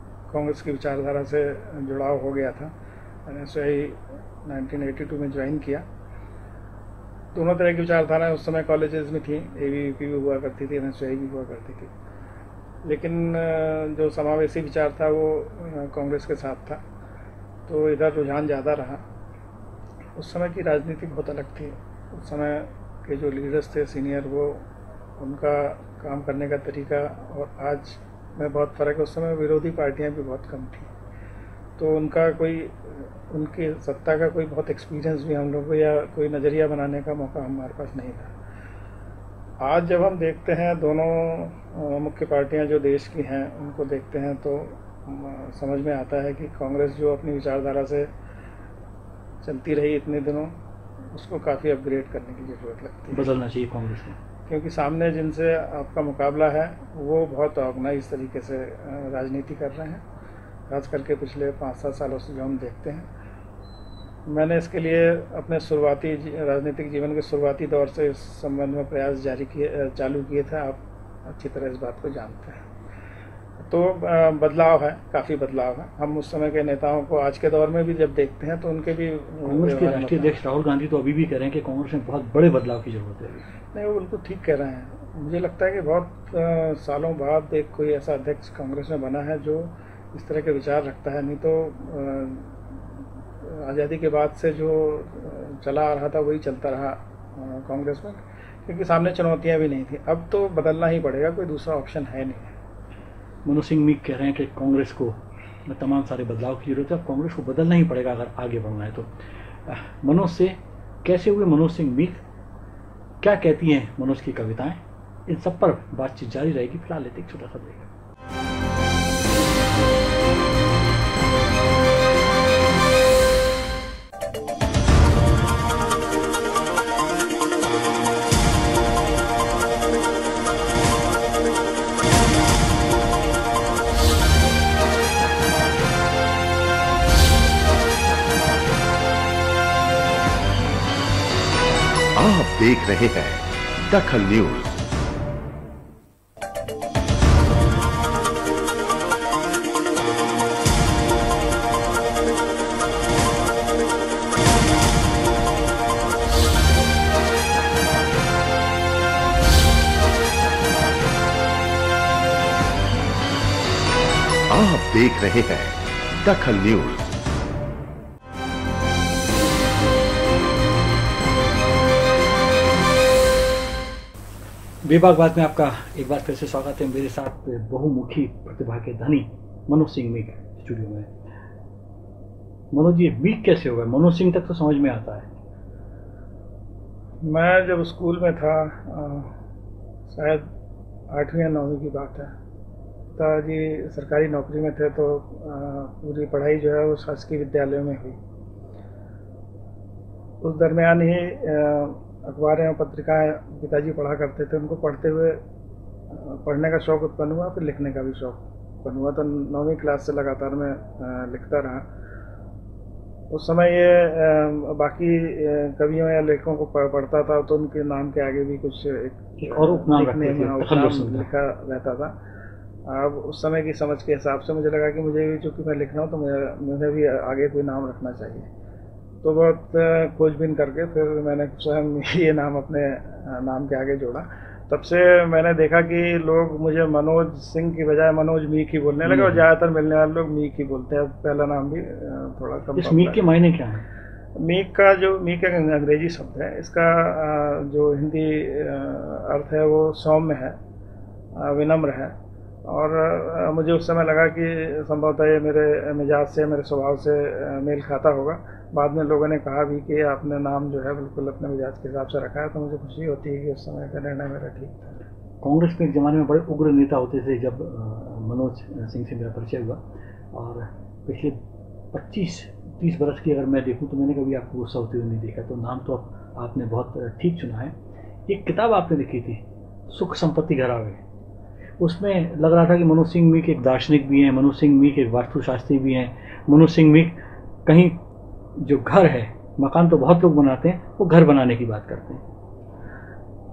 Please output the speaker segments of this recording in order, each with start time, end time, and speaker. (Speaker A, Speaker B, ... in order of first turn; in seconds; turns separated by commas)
Speaker A: 0.3-2.7, Speaker A: 3.2-5.8, Speaker A: 7.3-11.9, Speaker A: 12.8-16.8, Speaker A: 17.7-19.0, Speaker A: 20.1-24.6, Speaker A: 25.2-30.9, Speaker A: 31.8-38.3, Speaker A: 39.6-48.1, Speaker A: 49.4-50.5, Speaker A: 51.1-53.3, Speaker B: 53.1-54.2, Speaker A: 54.5-60.0, Speaker A: 60.7-63.1, Speaker A: 64.3-72.7, Speaker A: 73.7-80.4, Speaker B: 79.4-83.4, Speaker A: 83.7-92.7, Speaker A: 93.4-102.5, Speaker B: 103.4-109.1, Speaker B: 109.6-112.2, Speaker B: 113.2-117.9, Speaker C: 142.2-144.8, Speaker C: 164.5-167.1, Speaker B: 174.8-181.1, Speaker B: 182.7-185.3, Speaker A: 187.2-189.3, Speaker A: 190.1-190.4, Speaker A: 191.1-192.3, Speaker A: 193.1-198.2, Speaker A: 200.4-205.4, Speaker A: 206.1-211.8, Speaker A: 213.3-222.1, Speaker B: 219.4-221.3, Speaker A: 222.8-228.5, Speaker A: 229.2-243.2, Speaker B: 239.0-239.4, Speaker B: 242.8-243.8, Speaker A: 244.4-250.6, Speaker A: 251.3-265.0, Speaker B: 265.4-269.8, Speaker B: 270.3-271.4, Speaker B: 271.9-277.7, Speaker B: 278.3-281.0, Speaker B: 281.8-287.9, Speaker B: 288.6-292.2